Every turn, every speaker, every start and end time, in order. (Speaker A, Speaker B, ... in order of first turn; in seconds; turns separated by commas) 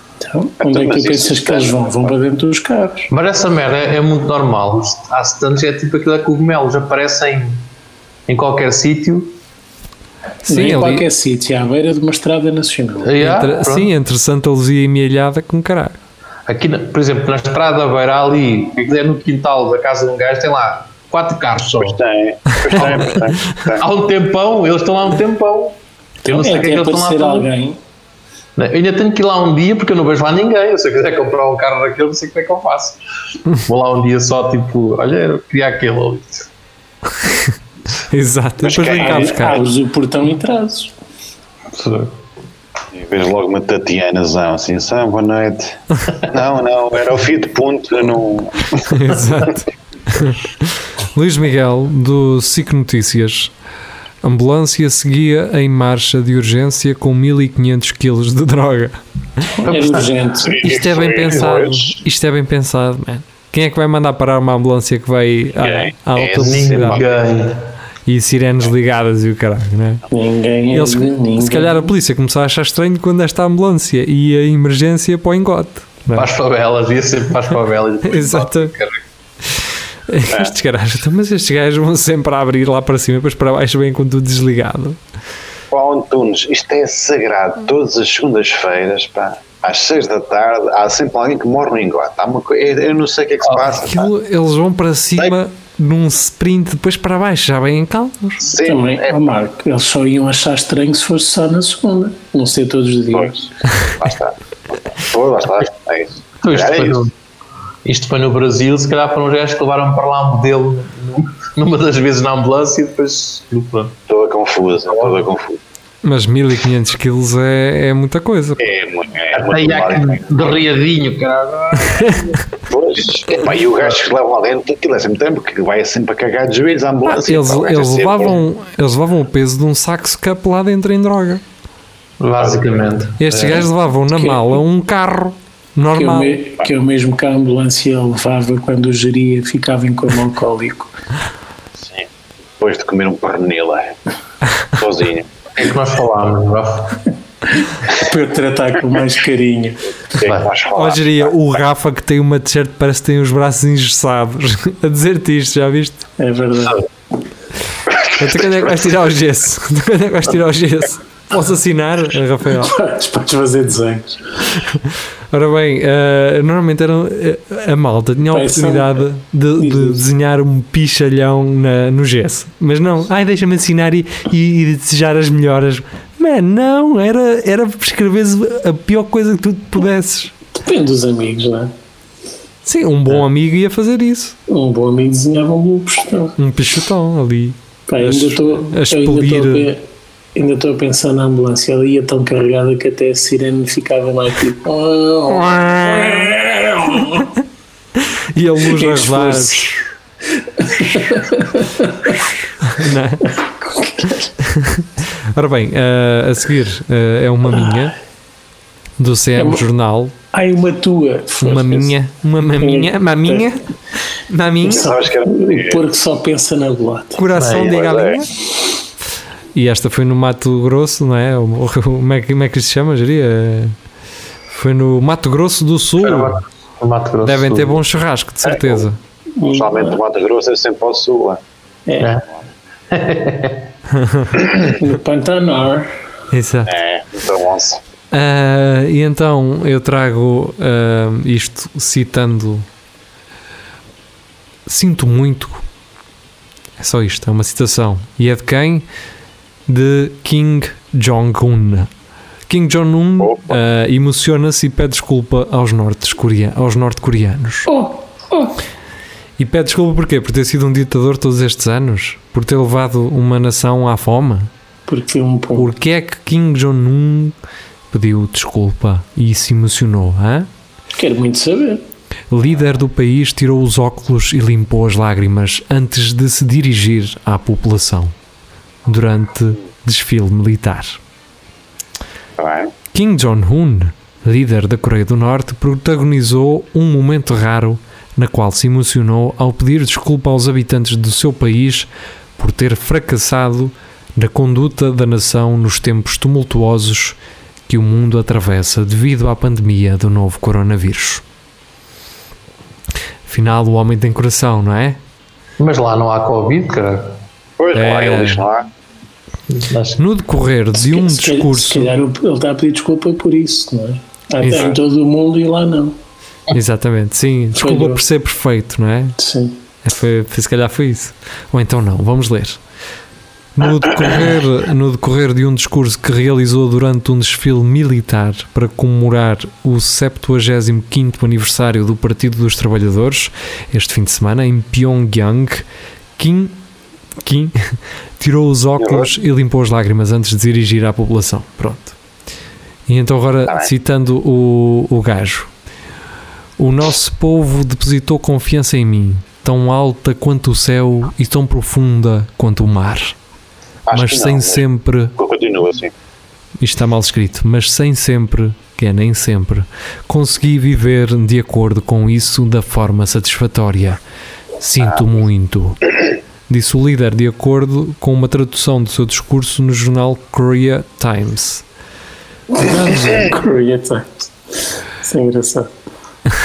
Speaker A: 0.2-3.1, Speaker B: 0.6-2.1, Speaker C: 3.1-7.7, Speaker C: 8.3-9.4, Speaker D: 10.5-11.1, Speaker A: 10.5-13.2, Speaker C: 13.0-13.9, Speaker D: 13.2-16.0, Speaker C: 16.5-22.0, Speaker B: 21.8-23.9, Speaker C: 22.7-23.2, Speaker C: 23.8-27.5, Speaker A: 26.3-27.8, Speaker C: 28.6-33.0, Speaker C: 33.6-36.5, Speaker D: 38.1-39.6, Speaker B: 38.6-39.6, Speaker A: 38.9-40.9, Speaker C: 41.7-42.1, Speaker B: 42.9-48.9, Speaker D: 48.8-53.5, Speaker D: 54.2-59.5, Speaker A: 59.6-60.6, Speaker C: 59.6-60.1, Speaker B: 60.4-62.0, Speaker D: 60.6-67.0, Speaker B: 65.6-67.1, Speaker C: 66.3-67.6, Speaker D: 68.1-70.0, Speaker A: 70.1-71.9, Speaker D: 70.7-76.3, Speaker C: 76.1-79.0, Speaker D: 78.1-78.7, Speaker D: 80.1-85.0, Speaker B: 80.3-80.5, Speaker B: 85.7-94.1, Speaker D: 93.7-98.4, Speaker B: 98.4-99.3, Speaker A: 98.6-103.5, Speaker B: 103.9-107.0, Speaker C: 106.4-107.1, Speaker C: 107.8-114.0, Speaker B: 114.1-115.6, Speaker D: 116.0-118.6, Speaker B: 118.6-120.6, Speaker C: 119.3-122.2, Speaker D: 121.8-122.3, Speaker B: 122.6-128.4, Speaker D: 127.1-131.4, Speaker C: 132.2-133.7, Speaker B: 132.4-132.8, Speaker D: 133.2-136.4, Speaker A: 134.1-134.6, Speaker A: 135.9-140.9, Speaker B: 141.8-142.1, Speaker B: 142.6-144.0, Speaker B: 144.7-145.3, Speaker C: 145.6-147.0, Speaker A: 147.6-149.8, Speaker B: 150.2-151.6, Speaker C: 150.2-150.5, Speaker D: 150.7-156.0, Speaker A: 156.2-156.8, Speaker D: 158.0-162.8, Speaker B: 158.1-158.4, Speaker A: 162.6-164.3, Speaker D: 164.7-180.3, Speaker A: 168.3-169.1, Speaker A: 169.6-170.1, Speaker A: 180.5-181.7, Speaker D: 182.6-184.3, Speaker A: 184.5-186.4, Speaker D: 186.4-189.7, Speaker A: 187.9-189.8, Speaker A: 190.3-197.3, Speaker D: 195.3-196.4, Speaker D: 198.0-199.7, Speaker A: 198.6-199.8, Speaker A: 200.4-202.2, Speaker D: 202.6-203.2, Speaker A: 203.2-204.3, Speaker D: 204.4-208.0, Speaker D: 209.0-210.1, Speaker A: 209.4-209.6, Speaker A: 210.3-211.9, Speaker D: 211.4-213.6, Speaker A: 212.6-213.5, Speaker D: 214.3-214.9, Speaker A: 214.6-217.2, Speaker B: 214.7-215.9, Speaker D: 217.2-218.3, Speaker C: 217.3-217.7, Speaker B: 217.4-218.3, Speaker D: 219.5-223.8, Speaker D: 224.5-226.4, Speaker C: 226.0-227.8, Speaker D: 227.2-229.0, Speaker B: 228.4-228.8, Speaker A: 229.4-230.0, Speaker B: 229.4-231.4, Speaker A: 231.9-232.1, Speaker C: 232.9-233.7, Speaker D: 233.9-234.4, Speaker A: 234.7-235.9, Speaker D: 236.3-236.7, Speaker B: 236.7-237.8, Speaker D: 238.1-242.7, Speaker D: 244.7-245.6, Speaker D: 246.8-248.9, Speaker D: 249.7-251.9, Speaker D: 252.5-257.7, Speaker B: 253.2-253.6, Speaker A: 257.6-258.6, Speaker D: 259.4-264.5, Speaker A: 264.9-265.7, Speaker D: 265.6-267.4, Speaker D: 267.9-270.5, Speaker A: 271.0-271.8, Speaker D: 272.3-278.1, Speaker D: 278.9-281.0, Speaker B: 282.4-282.7, Speaker D: 282.9-301.2, Speaker D: 303.3-305.0, Speaker C: 305.6-307.2, Speaker B: 307.6-308.7, Speaker D: 307.8-308.4, Speaker C: 309.5-310.0, Speaker D: 310.0-311.9, Speaker A: 310.7-316.0, Speaker D: 314.4-314.8, Speaker D: 316.5-319.1, Speaker A: 317.6-318.0, Speaker A: 319.2-319.6, Speaker D: 319.8-322.6, Speaker D: 323.6-335.6, Speaker D: 336.2-336.6, Speaker D: 337.2-342.0, Speaker B: 338.8-339.1, Speaker D: 342.9-345.5, Speaker B: 343.5-343.7, Speaker D: 346.6-353.1, Speaker B: 353.9-354.6, Speaker D: 353.9-355.1, Speaker B: 355.1-355.9, Speaker D: 356.6-364.0, Speaker D: 364.6-365.9, Speaker D: 366.5-371.6, Speaker A: 372.5-374.3, Speaker A: 375.0-375.7